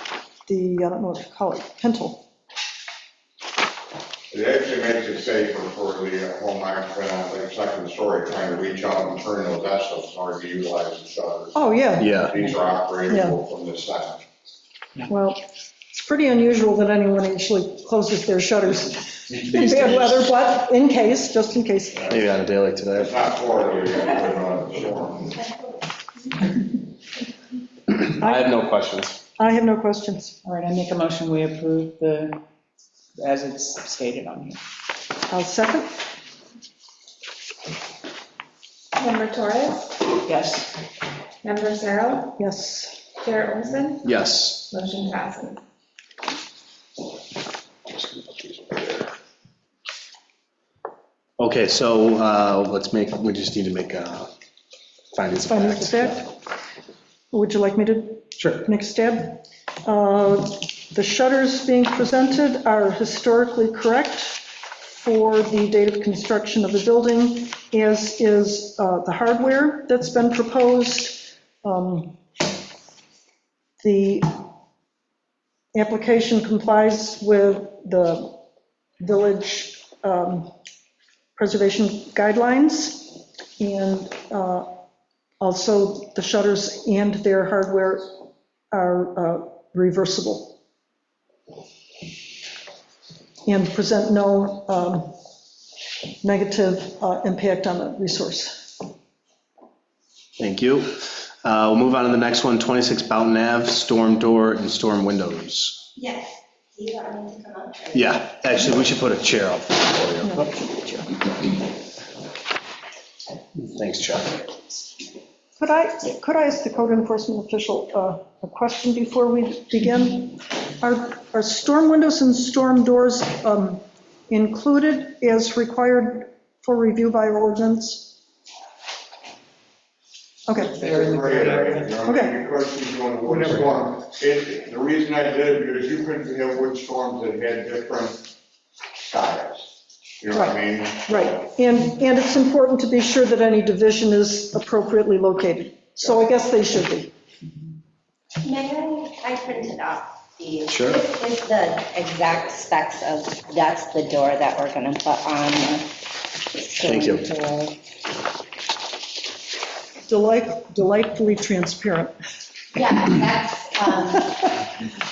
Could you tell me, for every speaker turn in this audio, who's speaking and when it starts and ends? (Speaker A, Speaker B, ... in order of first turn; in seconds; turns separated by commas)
Speaker A: 0.5-2.2, Speaker B: 4.3-11.6, Speaker A: 11.5-12.2, Speaker C: 12.0-12.4, Speaker B: 12.1-14.2, Speaker A: 13.1-13.4, Speaker A: 15.1-22.1, Speaker C: 22.1-23.2, Speaker B: 22.9-25.4, Speaker C: 27.9-29.2, Speaker A: 28.2-28.5, Speaker A: 29.4-30.4, Speaker D: 30.4-32.4, Speaker D: 33.2-34.6, Speaker A: 35.3-35.9, Speaker E: 39.0-40.1, Speaker D: 40.2-40.7, Speaker E: 41.4-42.4, Speaker A: 42.4-43.0, Speaker E: 43.2-44.1, Speaker C: 44.0-44.7, Speaker E: 44.7-45.6, Speaker C: 47.9-49.0, Speaker C: 51.4-54.3, Speaker C: 55.1-56.2, Speaker A: 55.4-56.3, Speaker A: 57.3-72.2, Speaker C: 58.4-58.6, Speaker A: 73.8-74.4, Speaker A: 75.7-78.4, Speaker A: 79.0-80.5, Speaker A: 81.3-84.7, Speaker A: 85.4-88.2, Speaker A: 88.7-90.5, Speaker A: 93.4-95.1, Speaker A: 96.2-98.7, Speaker C: 100.4-105.8, Speaker F: 106.0-108.0, Speaker C: 107.9-110.4, Speaker A: 110.2-111.1, Speaker C: 113.6-114.6, Speaker A: 115.6-128.2, Speaker A: 130.5-130.8, Speaker B: 130.8-138.2, Speaker D: 130.8-131.8, Speaker A: 132.0-132.3, Speaker D: 133.3-133.6, Speaker B: 139.0-141.4, Speaker A: 140.3-147.1, Speaker F: 148.4-155.9, Speaker C: 150.7-151.0, Speaker F: 156.6-157.7, Speaker C: 156.8-157.3, Speaker A: 160.1-162.2, Speaker F: 162.7-164.5